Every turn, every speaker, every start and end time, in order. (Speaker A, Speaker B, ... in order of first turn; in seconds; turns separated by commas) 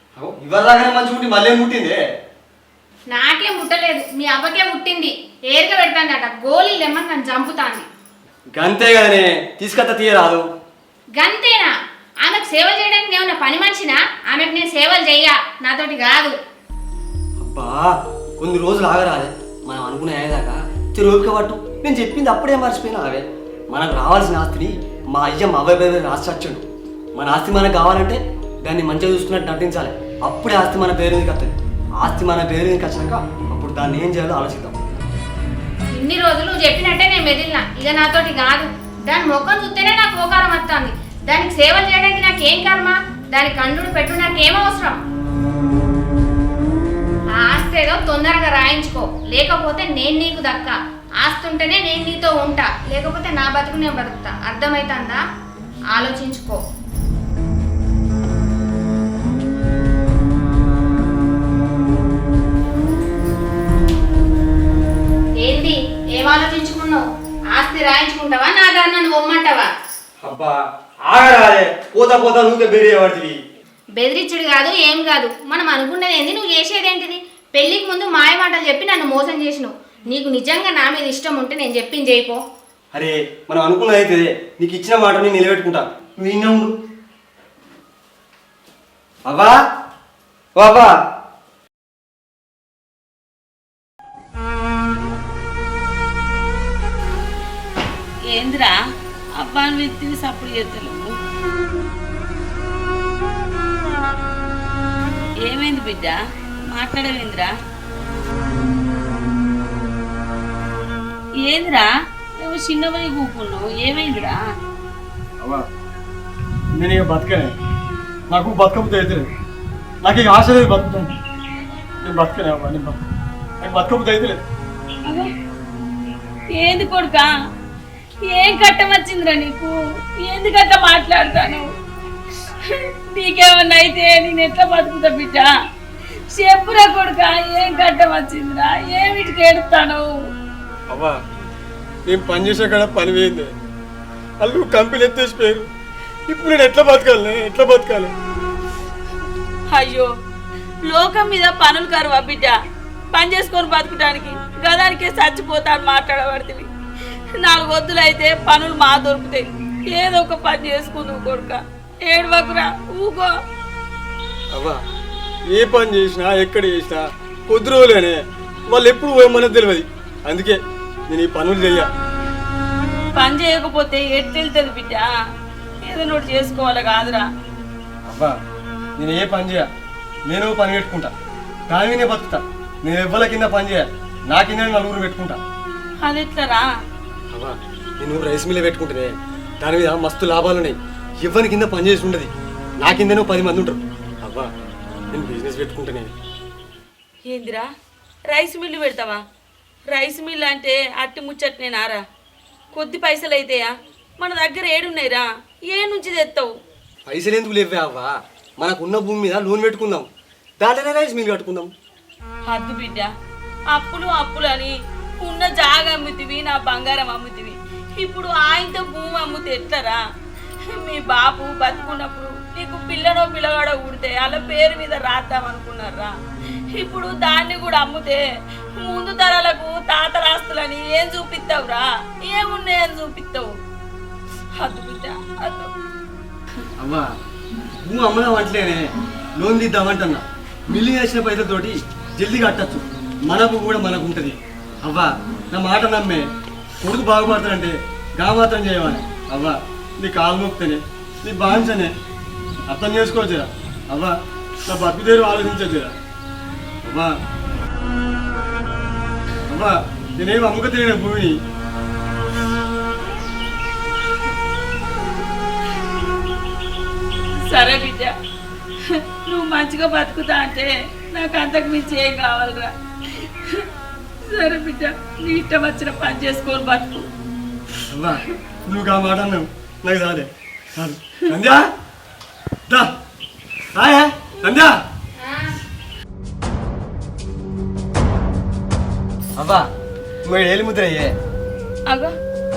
Speaker A: 0.1-2.0, Speaker B: 3.1-7.9, Speaker A: 8.6-10.4, Speaker B: 11.2-11.7, Speaker B: 12.2-16.3, Speaker A: 17.4-26.6, Speaker A: 27.1-34.8, Speaker B: 35.9-45.0, Speaker B: 47.4-55.2, Speaker B: 55.9-56.6, Speaker B: 65.4-69.7, Speaker A: 70.2-73.4, Speaker B: 74.0-82.4, Speaker A: 82.9-86.7, Speaker A: 89.2-89.5, Speaker A: 90.6-90.9, Speaker C: 98.3-98.8, Speaker C: 99.4-101.0, Speaker C: 105.5-106.2, Speaker C: 106.7-107.5, Speaker C: 111.4-111.9, Speaker C: 112.4-114.4, Speaker A: 116.8-117.5, Speaker A: 118.3-119.3, Speaker A: 120.0-121.2, Speaker A: 122.0-123.0, Speaker A: 123.6-124.4, Speaker C: 126.5-127.3, Speaker C: 128.2-131.7, Speaker C: 132.7-135.5, Speaker C: 136.3-140.1, Speaker A: 140.9-141.2, Speaker A: 142.1-143.5, Speaker A: 144.4-145.7, Speaker A: 146.3-148.1, Speaker C: 149.7-150.1, Speaker C: 150.9-152.6, Speaker C: 153.1-156.7, Speaker C: 157.4-163.3, Speaker A: 164.5-164.8, Speaker A: 165.5-171.9, Speaker C: 173.2-175.1, Speaker C: 175.9-177.2, Speaker A: 179.0-179.7, Speaker A: 180.3-181.1, Speaker A: 181.7-185.4, Speaker C: 186.0-186.7, Speaker A: 187.3-194.5, Speaker A: 195.1-196.1, Speaker C: 197.3-197.7, Speaker C: 198.3-199.2, Speaker C: 199.9-202.0, Speaker C: 202.7-206.5, Speaker A: 207.1-210.1, Speaker A: 210.6-211.7, Speaker C: 212.5-213.1, Speaker C: 213.7-220.0, Speaker C: 220.8-226.1, Speaker C: 226.7-228.2, Speaker C: 228.8-233.5, Speaker C: 234.6-235.7, Speaker A: 236.8-237.1, Speaker A: 237.8-238.8, Speaker A: 239.4-246.2, Speaker A: 246.8-251.9, Speaker A: 252.7-254.1, Speaker A: 254.7-255.9, Speaker A: 256.9-257.1, Speaker A: 259.5-261.4, Speaker C: 267.5-268.1, Speaker C: 268.8-273.7, Speaker C: 274.2-277.1, Speaker A: 277.9-281.6, Speaker A: 283.8-284.7, Speaker B: 285.2-285.5, Speaker A: 289.4-289.6, Speaker A: 290.2-291.1